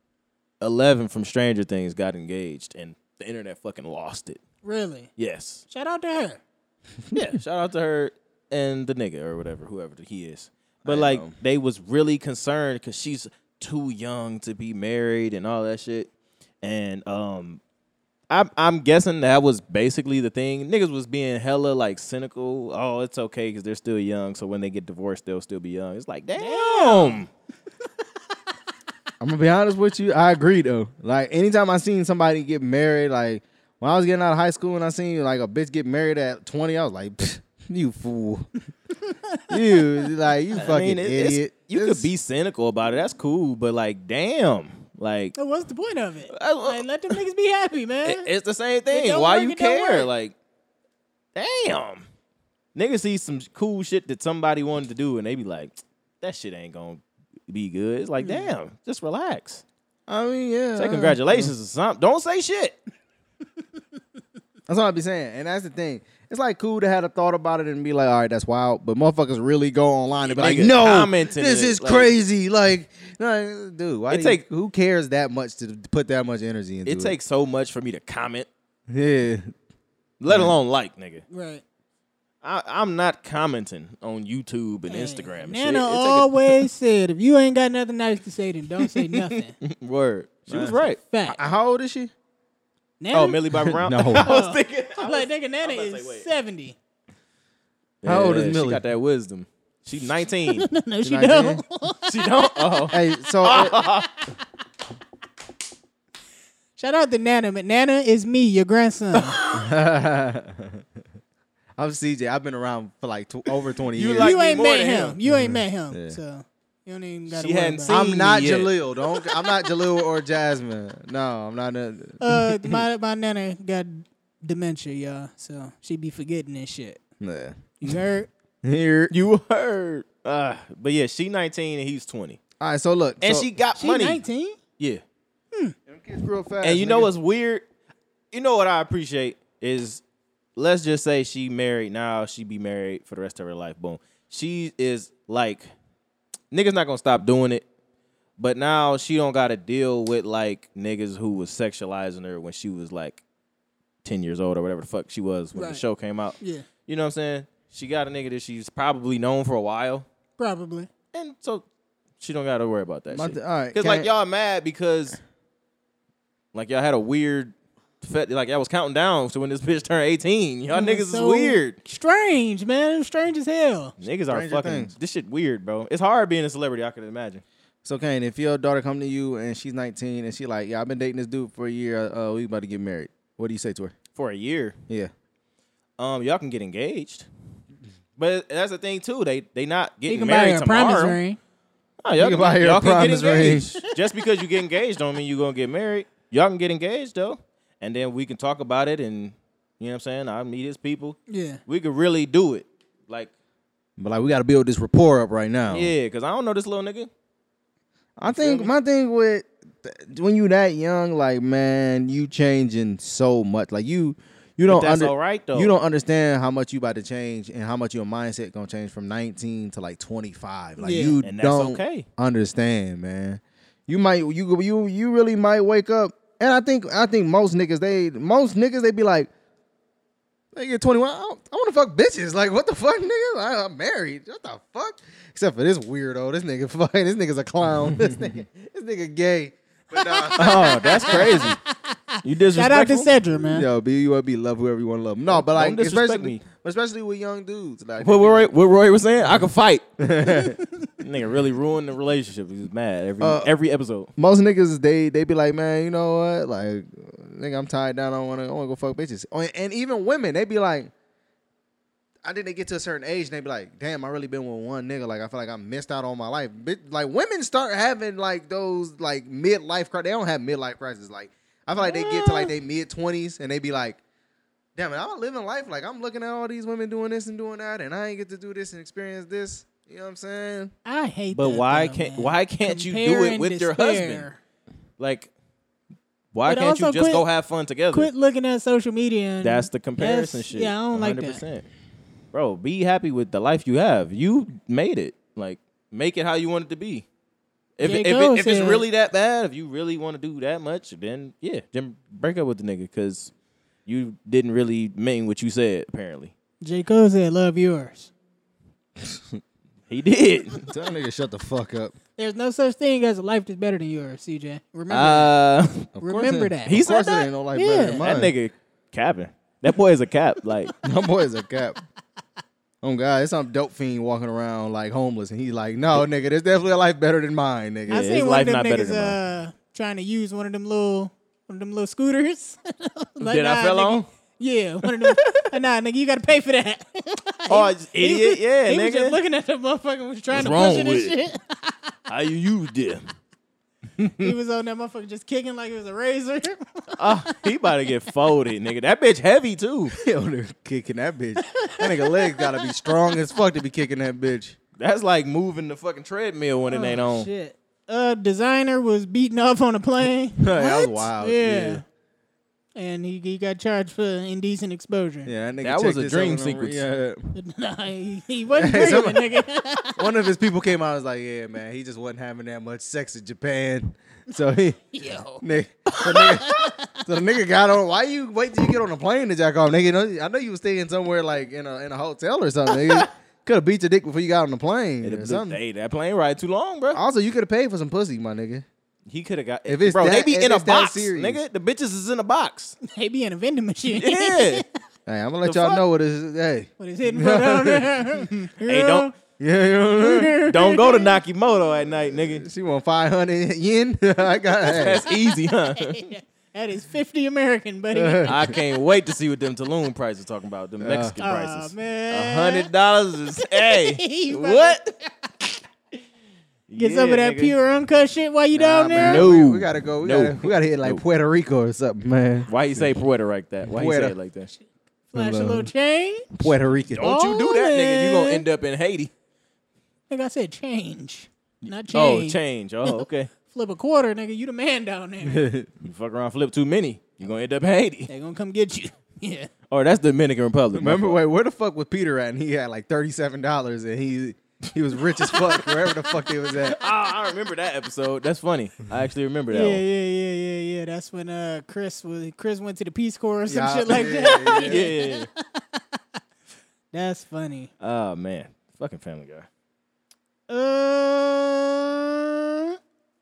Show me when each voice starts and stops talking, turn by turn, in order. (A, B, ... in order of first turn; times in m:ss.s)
0:00.6-0:04.4 A
0:04.6-0:05.1 B
0:05.2-0:05.6 A
0:05.7-0:06.4 B
0:07.1-0:16.1 A
0:10.8-0:11.4 C
0:16.6-0:17.6 A
0:18.3-0:27.3 A
0:26.4-0:27.2 B
0:29.2-0:38.5 C
0:39.1-0:39.5 B
0:39.5-0:42.1 C
0:40.6-0:45.4 A
0:45.4-0:48.3 B
0:46.3-0:46.8 A
0:48.0-0:50.3 A
0:48.9-0:50.1 B
0:51.4-0:52.0 A
0:52.8-0:59.6 A
0:58.2-0:58.5 B
1:00.1-1:01.5 C
1:00.8-1:02.8 A
1:04.7-1:17.2 C
1:10.3-1:12.1 A
1:14.1-1:14.4 A
1:16.8-1:18.5 A
1:18.9-1:19.5 C
1:20.2-1:21.2 A
1:20.3-1:20.6 C
1:21.3-1:21.6 B
1:22.4-1:26.6 A
1:24.9-1:29.6 B
1:28.8-1:31.0 A
1:30.5-1:32.1 C
1:31.0-1:31.4 B
1:33.0-1:33.4 B
1:33.1-1:36.3 A
1:33.6-1:34.3 C
1:34.1-1:36.8 B
1:38.0-1:40.7 A
1:38.0-1:38.8 C
1:40.5-1:42.8 B
1:41.0-1:41.6 C
1:42.0-1:44.2 A
1:42.9-1:43.9 C
1:46.8-1:49.4 B
1:49.2-1:49.6 A
1:49.5-1:50.8 C
1:51.8-1:54.4 C
1:54.0-1:55.2 A
1:54.2-1:58.0 B
1:55.3-1:56.2 C
1:57.3-1:58.7 A
1:57.9-2:02.8 C
2:02.2-2:07.0 B
2:07.2-2:07.7 C
2:07.8-2:08.3 B
2:08.6-2:09.1 C
2:09.1-2:12.4 A
2:12.6-2:13.5 C
2:13.2-2:14.2 A
2:13.8-2:14.6 B
2:15.9-2:17.1 C
2:16.6-2:17.6 A
2:18.3-2:20.0 A
2:20.6-2:25.6 A
2:26.5-2:27.6 A
2:28.4-2:33.2 A
2:34.0-2:40.1 A
2:35.6-2:35.8 B
2:36.4-2:36.7 B
2:40.4-2:40.9 B
2:41.1-2:41.6 A
2:42.2-2:45.2 A
2:43.1-2:44.1 C
2:46.5-2:51.8 A
2:50.7-2:53.9 B
2:54.0-2:57.4 A
2:54.3-2:54.9 C
2:57.8-3:04.0 C
3:04.2-3:04.8 A
3:06.0-3:07.3 A
3:08.2-3:11.2 A
3:10.1-3:11.4 B
3:12.0-3:23.3 A
3:12.2-3:13.7 C
3:21.3-3:21.6 B
3:24.0-3:25.9 C
3:25.7-3:27.1 A
3:28.2-3:49.3 C
3:28.3-3:28.7 A
3:34.7-3:35.7 A
3:40.8-3:41.2 B
3:41.2-3:42.1 A
3:50.5-4:01.6 C
4:00.0-4:03.7 B
4:00.4-4:01.6 A
4:02.2-4:03.1 A
4:03.3-4:08.5 C
4:05.3-4:06.4 A
4:08.0-4:09.8 A
4:10.0-4:10.6 C
4:10.3-4:10.9 B
4:11.0-4:14.1 A
4:13.2-4:13.5 C
4:14.2-4:20.9 C
4:22.2-4:34.0 C
4:31.8-4:32.5 B
4:34.8-4:40.7 C
4:40.9-4:44.4 B
4:41.3-4:44.3 A
4:45.0-4:45.3 A
4:46.3-4:48.1 A
4:46.5-4:47.3 B
4:47.9-4:51.4 B
4:49.4-4:51.7 A
4:52.3-4:57.1 A
4:57.8-5:03.3 A
4:57.8-4:58.8 B
5:03.9-5:06.3 A
5:06.6-5:08.1 B
5:09.0-5:09.4 C
5:09.9-5:10.7 A
5:10.7-5:12.0 C
5:12.2-5:15.3 B
5:14.9-5:15.9 A
5:16.0-5:18.3 C
5:16.0-5:16.8 B
5:16.7-5:17.3 A
5:17.5-5:18.0 B
5:18.0-5:20.7 A
5:20.8-5:21.8 C
5:22.8-5:28.1 C
5:27.9-5:29.2 A
5:27.9-5:41.9 B
5:33.2-5:34.1 A
5:34.8-5:35.5 A
5:37.5-5:39.2 A
5:40.3-5:41.2 A
5:42.1-5:43.0 A
5:44.0-5:44.3 A
5:44.2-5:47.3 B
5:47.0-5:50.0 A
5:49.9-5:54.6 C
5:51.5-5:52.5 B
5:54.8-5:57.3 A
5:56.7-6:01.8 B
6:00.4-6:01.8 C
6:02.8-6:05.3 B
6:05.3-6:07.4 C
6:05.6-6:06.8 A
6:07.4-6:10.0 B
6:08.6-6:09.4 C
6:10.0-6:14.9 C
6:14.9-6:15.4 B
6:15.4-6:25.6 C
6:16.0-6:17.0 B
6:25.0-6:27.0 A
6:26.9-6:28.7 C
6:29.1-6:32.8 A
6:29.7-6:31.4 C
6:32.8-6:34.7 B
6:33.9-6:34.6 A
6:35.1-6:37.9 C
6:35.4-6:35.8 A
6:36.8-6:39.1 B
6:38.6-6:39.1 A
6:39.4-6:40.4 C
6:40.0-6:41.2 B
6:40.3-6:42.5 A
6:41.9-6:45.0 C
6:44.7-6:46.1 A
6:45.1-6:48.4 B
6:47.9-6:48.6 C
6:48.2-6:54.9 A
6:50.8-6:51.2 C
6:51.2-6:52.7 B
6:53.4-6:55.5 B
6:56.7-6:57.6 A
6:56.8-6:59.3 B
6:58.5-7:03.0 C
6:59.0-7:01.0 A
7:02.5-7:04.5 A
7:03.6-7:04.2 C
7:05.1-7:06.3 B
7:05.2-7:05.7 C
7:06.3-7:07.1 C
7:06.9-7:09.1 A
7:07.0-7:08.4 B
7:10.1-7:15.5 B
7:11.9-7:13.3 A
7:15.2-7:15.7 C
7:15.8-7:18.1 A
7:18.1-7:19.5 B
7:19.7-7:21.2 A
7:20.7-7:26.8 C
7:26.6-7:29.8 A
7:29.5-7:36.0 B
7:33.5-7:34.9 C
7:34.4-7:35.3 A
7:36.9-7:37.7 B
7:37.8-7:39.5 A
7:40.5-7:42.8 B